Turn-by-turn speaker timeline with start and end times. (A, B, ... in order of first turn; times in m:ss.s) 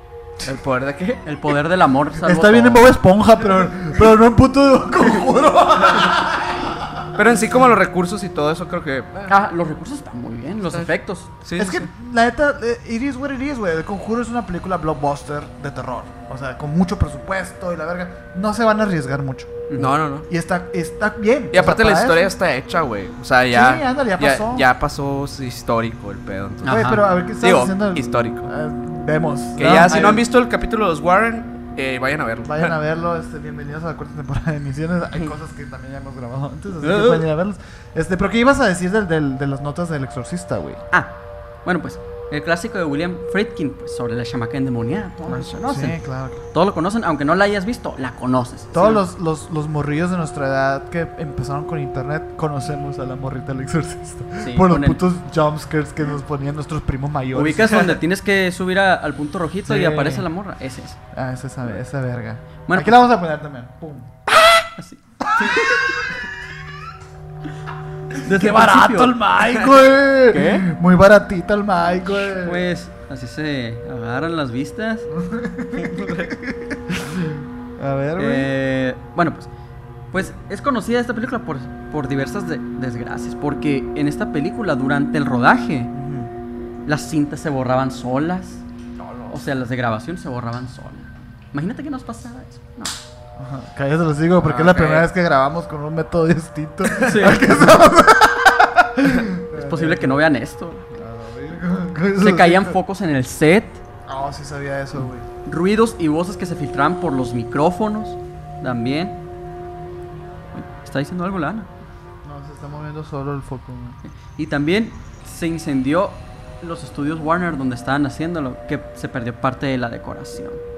0:00.4-0:01.3 A
0:01.2-0:02.9 B
0:02.2-0:07.1 C
0:05.9-0:06.1 A
0:07.1-0:09.3 A
0:09.3-0:11.3 B
0:11.4-0:11.8 A
0:11.6-0:19.6 C
0:19.8-0:20.3 A
0:20.3-0:22.3 C
0:21.5-0:26.9 A
0:23.5-0:24.7 C
0:26.6-0:27.0 B
0:26.7-0:30.2 C
0:27.4-0:28.5 A
0:29.6-0:32.7 A
0:29.6-0:30.2 B
0:32.4-0:40.8 C
0:36.8-0:37.3 A
0:40.9-0:49.1 B
0:45.3-0:46.4 C
0:48.7-0:58.0 C
0:54.4-0:55.0 B
0:57.3-1:01.0 B
0:59.7-1:00.3 C
1:01.1-1:04.3 C
1:02.7-1:03.0 B
1:04.8-1:05.9 B
1:05.2-1:05.8 C
1:08.2-1:12.6 C
1:08.2-1:09.2 B
1:10.3-1:10.7 B
1:12.3-1:15.1 B
1:15.1-1:18.5 C
1:15.8-1:16.3 A
1:18.2-1:19.5 B
1:20.1-1:25.9 B
1:25.9-1:26.3 C
1:26.9-1:28.6 B
1:29.0-1:29.4 A
1:29.3-1:33.0 B
1:33.4-1:40.2 C
1:34.4-1:35.1 A
1:37.0-1:37.7 B
1:39.5-1:40.9 B
1:40.9-1:42.8 C
1:42.2-1:43.8 B
1:44.1-1:45.3 C
1:45.5-1:49.2 B
1:50.5-1:51.7 B
1:52.2-1:54.0 C
1:54.1-2:00.6 B